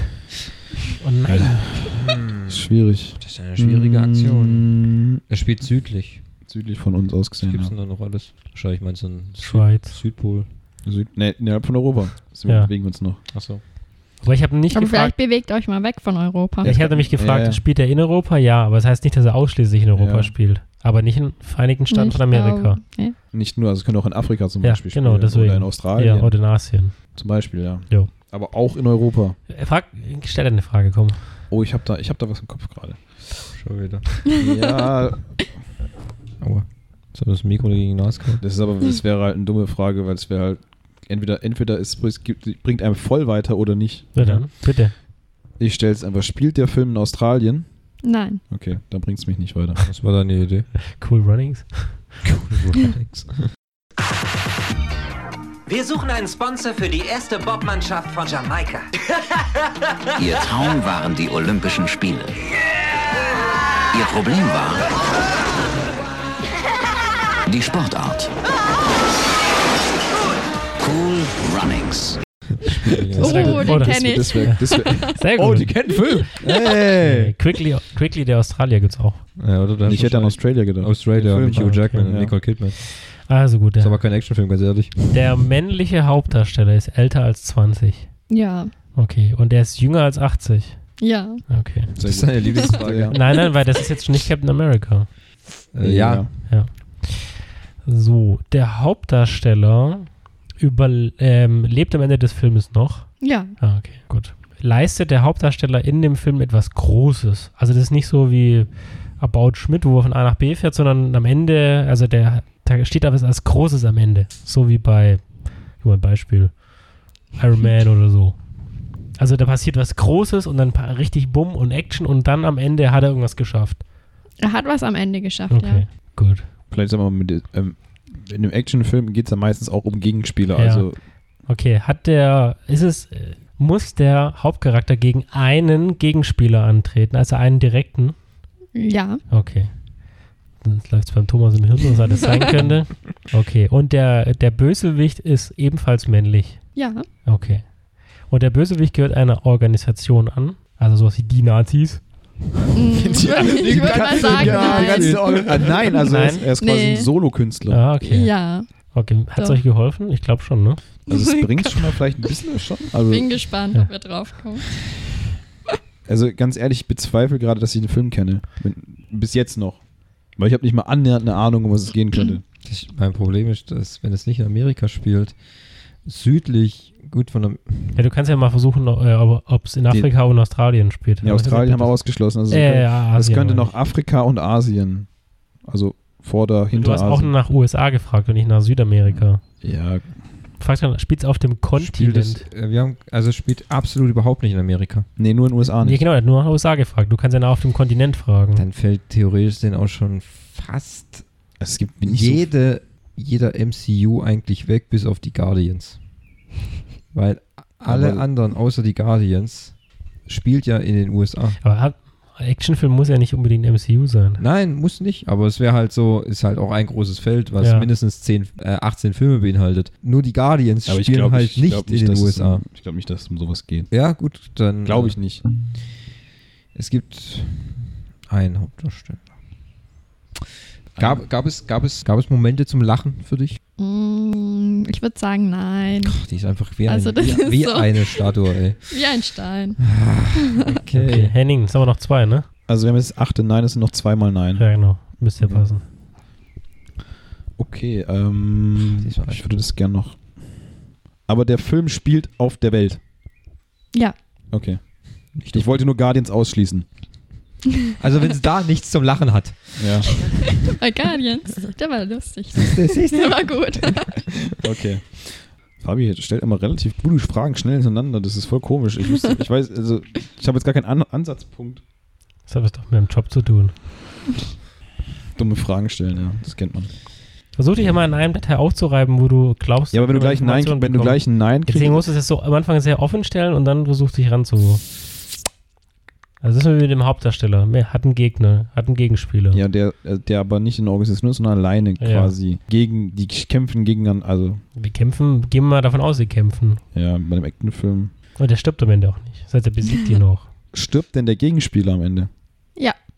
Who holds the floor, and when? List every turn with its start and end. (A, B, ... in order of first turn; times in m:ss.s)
0:01.0-0:01.6 A
0:01.3-0:05.2 B
0:01.9-0:04.8 C
0:05.3-0:06.2 C
0:06.4-0:07.7 B
0:07.4-0:10.5 C
0:09.4-0:10.0 A
0:10.8-0:13.2 B
0:12.4-0:12.7 A
0:13.3-0:13.6 C
0:14.2-0:15.2 A
0:14.7-0:16.8 D
0:16.6-0:17.6 B
0:16.6-0:22.8 A
0:19.9-0:20.3 B
0:21.9-0:23.2 D
0:23.3-0:26.4 B
0:24.6-0:27.0 A
0:27.1-0:29.4 B
0:29.5-0:31.2 A
0:31.5-0:33.4 B
0:33.5-0:34.1 C
0:34.4-0:35.5 B
0:36.4-0:38.4 C
0:38.4-0:44.1 B
0:44.1-0:44.9 A
0:45.6-0:47.6 B
0:48.0-0:48.4 D
0:48.5-0:49.8 B
0:49.9-0:50.7 C
0:50.9-0:52.1 A
0:52.2-0:53.5 C
0:55.7-0:58.9 E
1:00.2-1:02.3 F
1:03.9-1:04.9 F
1:07.5-1:08.3 F
1:10.8-1:12.2 F
1:12.8-1:13.7 C
1:13.2-1:15.2 D
1:13.2-1:16.0 A
1:13.2-1:16.3 B
1:16.4-1:17.4 C
1:17.0-1:19.3 A
1:19.4-1:22.8 C
1:19.8-1:22.3 B
1:21.5-1:24.1 A
1:23.8-1:25.3 C
1:25.1-1:28.1 A
1:28.3-1:28.7 D
1:28.9-1:31.9 A
1:31.0-1:31.5 D
1:32.0-1:33.2 B
1:32.0-1:33.3 C
1:32.5-1:35.1 A
1:35.7-1:36.3 C
1:35.8-1:36.3 B
1:36.4-1:58.4 A
1:43.2-1:43.5 D
1:59.1-2:03.8 A
2:04.4-2:05.8 D
2:05.5-2:06.4 A
2:06.7-2:11.0 B
2:10.6-2:18.2 A
2:18.7-2:19.2 D
2:19.3-2:19.7 A
2:20.6-2:32.1 A
2:26.7-2:27.1 D
2:32.7-2:35.2 D
2:33.0-2:37.9 B
2:33.4-2:35.8 C
2:34.8-2:35.2 A
2:36.0-2:36.4 A
2:36.6-2:37.1 D
2:37.7-2:40.8 A
2:38.0-2:39.6 D
2:41.1-2:43.5 B
2:41.1-2:42.0 D
2:43.1-2:44.7 D
2:46.0-2:52.4 B
2:52.6-2:58.0 C
2:57.9-3:03.8 A
3:01.2-3:07.3 B
3:06.7-3:09.4 A
3:09.1-3:10.1 B
3:10.6-3:12.4 A
3:11.8-3:15.1 C
3:15.2-3:16.0 B
3:15.8-3:18.6 A
3:18.5-3:21.2 C
3:21.6-3:22.5 B
3:22.0-3:26.0 C
3:27.1-3:31.6 C
3:27.8-3:28.2 B
3:31.6-3:34.4 A
3:34.4-3:42.6 C
3:37.6-3:37.9 A
3:40.8-3:44.1 B
3:43.9-3:45.8 C
3:44.8-3:45.4 B
3:46.7-3:49.3 C
3:51.0-3:51.2 B
3:51.0-3:53.6 C
3:53.8-3:56.2 D
3:56.0-3:58.9 C
3:56.8-3:58.3 D
3:58.9-3:59.8 D
3:59.8-4:01.3 C
4:00.9-4:02.5 A
4:00.9-4:01.3 B
4:02.7-4:05.6 B
4:04.6-4:05.8 A
4:07.6-4:10.4 B
4:08.9-4:09.4 C
4:11.2-4:13.0 B
4:14.5-4:16.9 B
4:15.3-4:15.7 C
4:18.0-4:20.1 C
4:19.8-4:20.1 B
4:20.6-4:24.1 D
4:22.5-4:23.9 C
4:24.6-4:31.8 B
4:32.5-4:33.8 A
4:35.4-4:36.9 B
4:37.5-4:44.8 A
4:39.9-4:42.1 B
4:46.4-4:49.6 A
4:49.5-4:54.6 B
4:52.0-4:52.3 A
4:54.7-4:56.8 A
4:56.9-4:58.1 B
4:58.4-5:00.5 A
5:00.7-5:02.3 B